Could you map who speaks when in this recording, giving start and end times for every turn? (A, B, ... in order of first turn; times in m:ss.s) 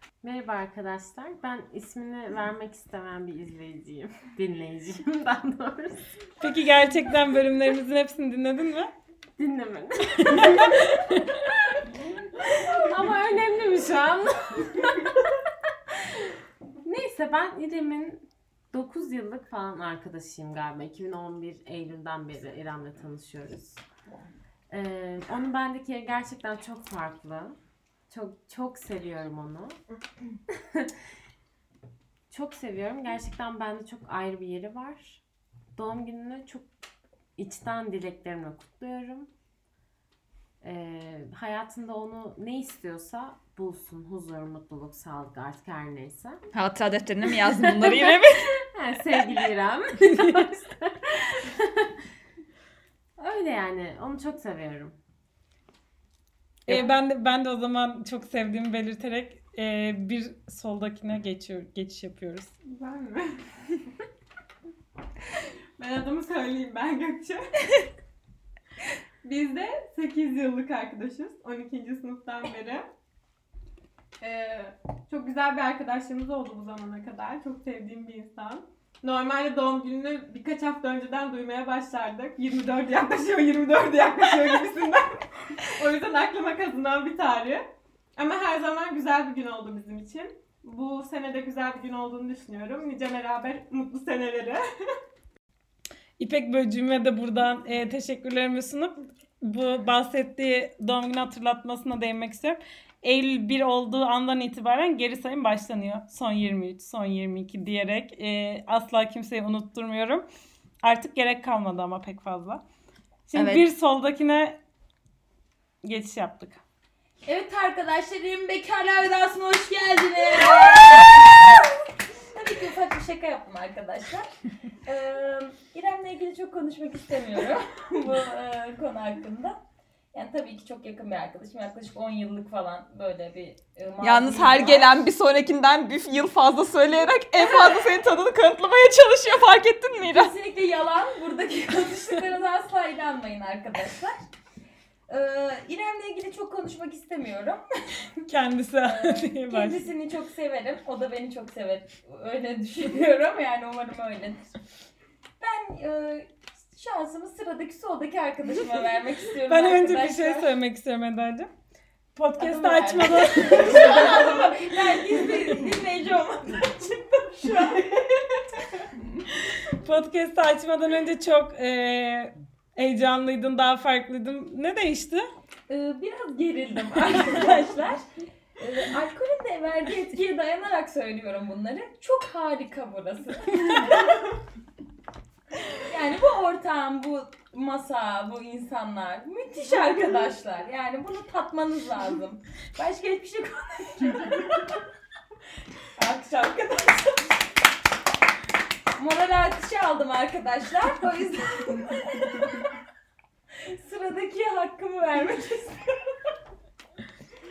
0:00.2-0:06.2 A
0:06.4-0:08.9 B
0:09.4-0:11.9 A
0:10.4-0:10.6 B
0:12.4-0:15.1 A
0:16.8-0:23.8 A
0:24.7-0:27.6 A
0:28.1-0:29.8 A
0:32.3-0:35.2 A
0:35.7-0:36.7 A
0:37.4-0:39.3 A
0:40.6-0:46.4 A
0:46.5-0:48.5 C
0:47.2-0:51.8 A
0:53.2-0:55.0 A
0:56.6-1:02.5 B
1:02.6-1:03.4 D
1:05.8-1:07.4 D
1:09.2-1:12.8 D
1:14.2-1:34.6 D
1:36.2-1:50.2 B
1:50.8-1:52.6 B
1:53.3-1:54.6 B
1:53.3-1:53.6 C
1:55.8-1:56.6 B
1:57.2-2:04.3 E
2:04.8-2:09.6 E
2:10.1-2:15.0 E
2:14.0-2:20.3 C
2:20.1-2:24.2 E
2:25.1-2:27.6 E
2:28.2-2:29.8 B
2:28.8-2:34.5 E
2:35.4-2:40.5 E
2:39.5-2:41.5 B
2:42.2-2:44.0 B
2:42.4-2:48.1 E
2:49.7-2:55.2 B
2:55.7-2:58.0 E
2:58.6-3:04.2 E
3:05.7-3:14.8 E
3:16.0-3:17.3 E
3:19.0-3:22.6 E
3:23.6-3:25.8 E